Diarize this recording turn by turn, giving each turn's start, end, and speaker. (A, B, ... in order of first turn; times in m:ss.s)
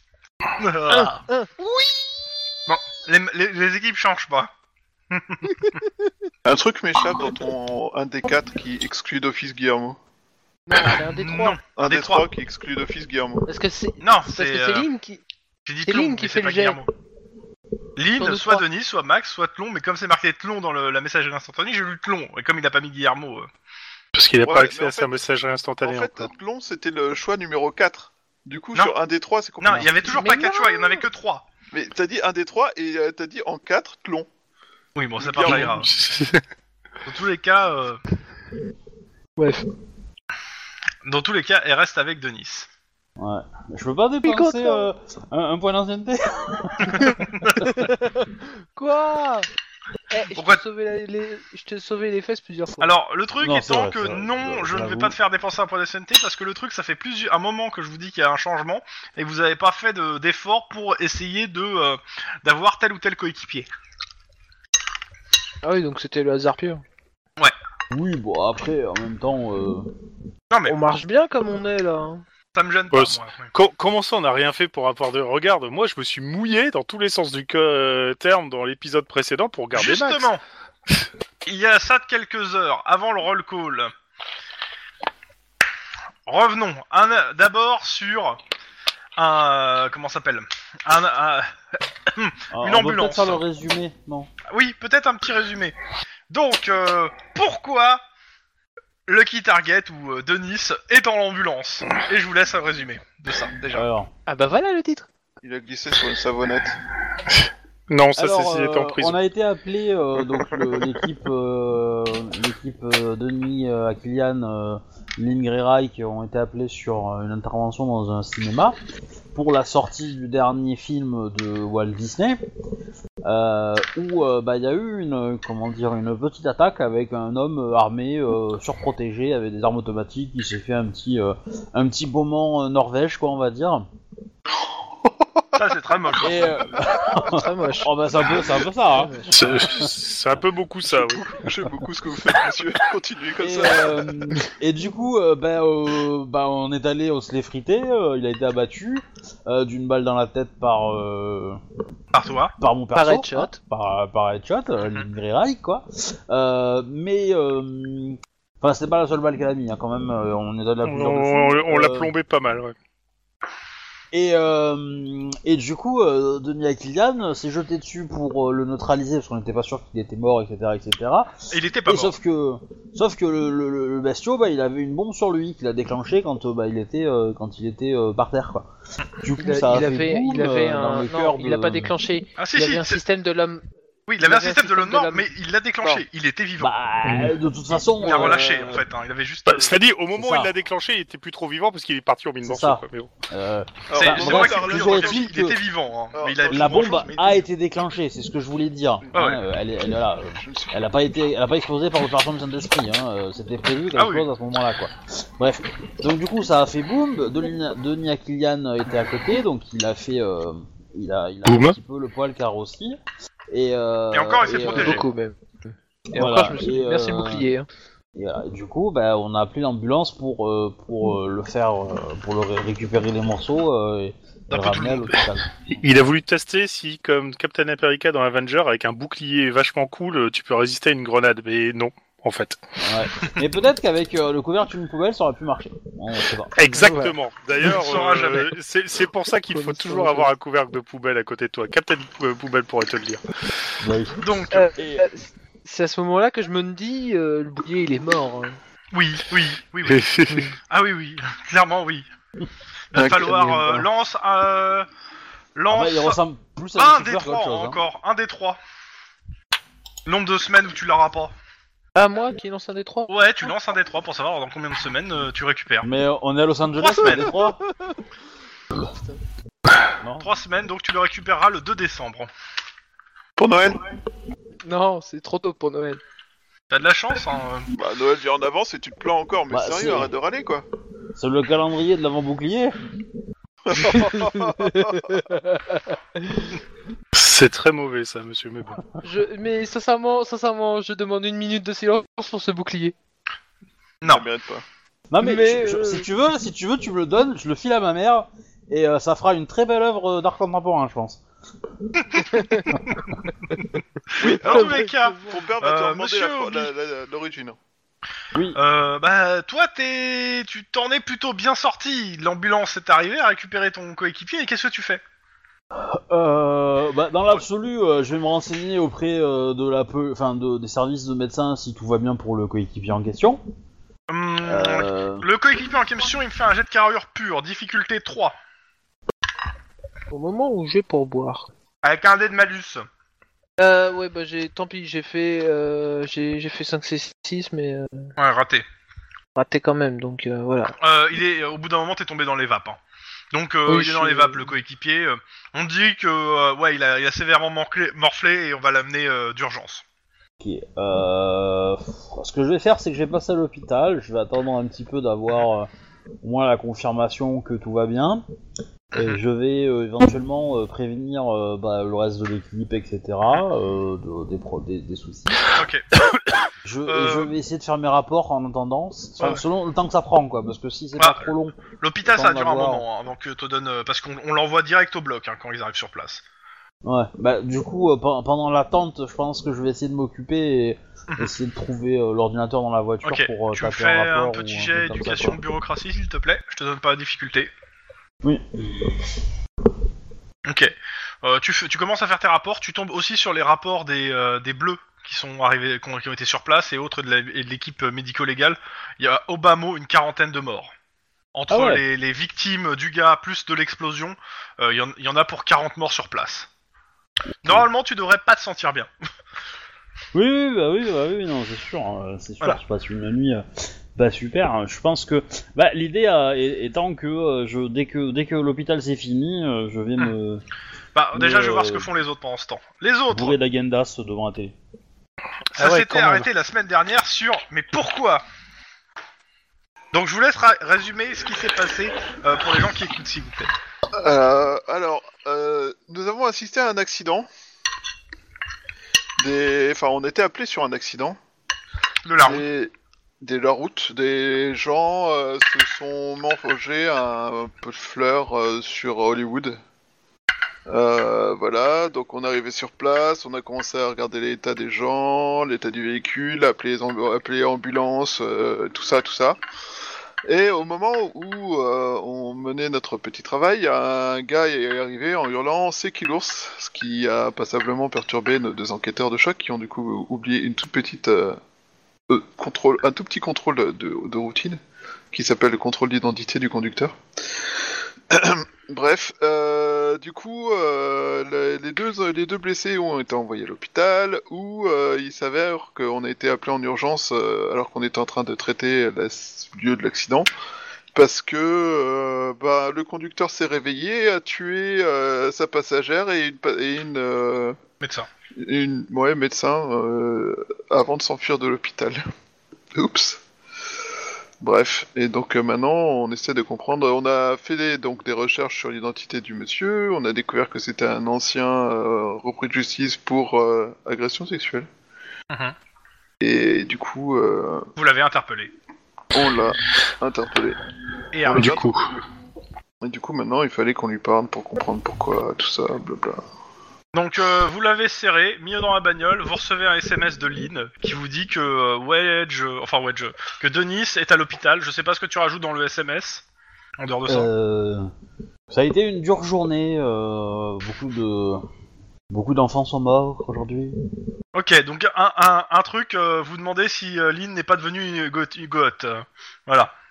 0:00.6-0:01.2 A
0:00.9-0:02.1 B
0:02.7-0:04.5 A
0:05.1-0:05.7 A
0:06.4-0:10.0 C
0:10.7-0:11.6 B
0:10.7-0:12.3 A
0:11.7-0:13.5 C
0:13.4-0:15.2 B
0:14.0-0:14.9 A
0:15.6-0:16.9 A
0:15.8-0:16.8 B
0:18.0-0:23.5 A
0:18.2-0:18.6 B
0:24.1-0:26.3 D
0:24.4-0:25.1 C
0:25.8-0:30.1 C
0:29.6-0:31.4 A
0:30.1-0:31.0 B
0:31.7-0:34.3 C
0:35.0-0:35.9 A
0:35.2-0:35.7 C
0:35.4-0:36.4 D
0:37.0-0:38.0 A
0:39.4-0:39.7 B
0:41.0-0:42.7 A
0:43.2-0:47.2 E
0:44.2-0:44.8 B
0:47.0-0:49.5 B
0:47.2-0:47.6 A
0:50.1-0:52.9 B
0:50.3-0:50.6 A
0:52.8-1:03.7 A
0:53.4-0:55.2 E
1:05.6-1:06.8 B
1:07.9-1:09.9 E
1:10.5-1:10.8 A
1:10.6-1:12.2 B
1:12.5-1:13.5 A
1:12.9-1:20.3 D
1:19.7-1:20.4 A
1:21.4-1:23.9 A
1:26.2-1:28.4 A
1:29.2-1:31.5 A
1:32.1-1:33.4 A
1:32.5-1:34.3 E
1:34.5-1:35.8 A
1:36.3-1:38.0 A
1:39.1-1:43.9 A
1:43.7-1:44.1 E
1:44.3-1:45.1 B
1:45.4-1:46.8 C
1:47.3-1:49.2 D
1:48.2-1:58.8 E
1:59.3-2:02.4 E
2:03.2-2:13.8 E
2:15.5-2:16.7 A
2:16.2-2:19.9 E
2:17.2-2:17.9 B
2:18.9-2:19.3 B
2:19.3-2:21.3 D
2:20.9-2:24.4 C
2:23.4-2:31.6 E
2:32.1-2:32.5 A
2:32.6-2:42.1 E
2:32.9-2:33.6 B
2:34.8-2:35.1 A
2:40.8-2:42.8 D
2:44.1-2:58.7 E
2:51.5-2:52.2 A
2:59.2-3:01.9 E
2:59.4-3:03.6 B
3:02.4-3:03.0 A
3:04.1-3:06.7 A
3:04.2-3:05.3 B
3:06.6-3:08.8 E
3:07.0-3:07.3 D
3:08.0-3:09.8 A
3:09.5-3:13.1 D
3:10.1-3:10.5 E
3:12.4-3:15.6 E
3:13.9-3:15.2 C
3:13.9-3:17.4 A
3:16.1-3:17.4 C
3:16.5-3:33.0 E
3:19.1-3:19.4 A
3:20.4-3:20.8 C
3:23.9-3:24.3 A
3:31.4-3:31.8 D
3:33.5-3:35.0 E
3:34.1-3:35.1 A
3:34.5-3:37.6 B
3:36.1-3:37.5 E
3:38.1-3:45.7 E
3:44.5-3:45.2 A
3:45.7-3:52.8 D
3:52.8-3:57.1 E
3:56.6-4:03.2 D
3:56.7-3:57.1 B
3:57.6-3:58.5 A
3:59.6-4:00.3 B
4:03.8-4:04.2 E
4:04.2-4:04.7 A
4:04.5-4:08.6 B
4:04.7-4:05.0 E
4:08.9-4:10.0 A
4:09.8-4:10.5 D
4:10.7-4:12.1 A
4:12.9-4:14.9 A
4:12.9-4:13.3 C
4:13.1-4:13.8 E
4:15.5-4:16.2 A
4:15.7-4:17.8 E
4:16.7-4:18.6 A
4:20.0-4:21.3 A
4:21.9-4:23.5 B
4:23.1-4:25.9 A
4:25.8-4:27.6 E
4:26.7-4:27.4 A
4:30.0-4:30.3 E
4:30.2-4:32.3 A
4:33.4-4:33.9 C
4:34.6-4:36.0 B
4:36.7-4:37.7 A
4:37.7-4:40.6 C
4:39.5-4:40.1 E
4:41.1-4:42.8 E
4:43.6-4:45.1 C
4:43.8-4:46.6 B
4:47.1-4:48.8 D
4:49.0-4:52.9 B
4:54.0-4:54.6 C
4:55.1-5:01.2 E
4:55.2-4:56.1 B
5:02.0-5:02.9 A
5:02.3-5:02.7 B
5:04.1-5:06.7 A
5:04.2-5:07.6 C
5:04.2-5:05.5 B
5:08.6-5:15.0 A
5:15.7-5:23.4 E
5:24.1-5:28.3 A
5:24.4-5:25.2 E
5:30.1-5:31.5 B
5:31.8-5:32.8 A
5:33.6-5:38.1 B
5:38.2-5:38.6 A
5:39.3-5:40.7 B
5:40.8-5:42.8 A
5:43.3-5:49.8 A
5:43.6-5:44.4 B
5:50.4-5:55.7 E
5:56.2-5:58.2 E
5:58.9-6:05.4 E
6:05.5-6:05.8 A
6:06.6-6:12.8 E
6:06.9-6:07.3 A
6:11.0-6:16.2 A
6:16.8-6:25.4 E
6:23.0-6:27.5 A
6:28.2-6:28.9 E
6:30.4-6:40.7 A
6:41.3-6:46.5 A
6:41.5-6:41.8 E
6:47.4-6:48.9 A
6:50.1-6:53.4 E
6:53.9-7:00.4 E
7:00.9-7:03.4 A
7:01.1-7:01.9 E
7:03.1-7:04.5 E
7:05.5-7:08.2 A
7:05.6-7:06.2 E
7:05.7-7:06.2 D
7:09.9-7:13.5 A
7:14.0-7:17.3 C
7:19.2-7:21.2 C
7:22.0-7:22.5 A
7:22.2-7:29.6 C
7:30.7-7:39.4 C
7:40.2-7:51.4 C
7:52.1-7:54.6 C
7:55.1-7:57.0 C
7:58.1-8:10.3 C
8:10.9-8:17.6 C
8:17.8-8:18.1 A
8:18.4-8:22.0 C
8:22.7-8:23.2 C
8:24.4-8:34.7 C
8:35.3-8:35.5 A
8:36.2-8:37.7 C
8:37.8-8:38.5 A
8:39.1-8:40.6 C
8:41.1-8:41.7 A
8:41.2-8:41.7 C
8:41.3-8:41.8 D
8:42.8-8:46.2 C
8:46.9-8:56.2 A
8:56.8-8:57.3 A
8:57.1-8:57.9 E
8:58.5-9:01.4 E
9:02.1-9:03.8 E
9:04.3-9:09.7 A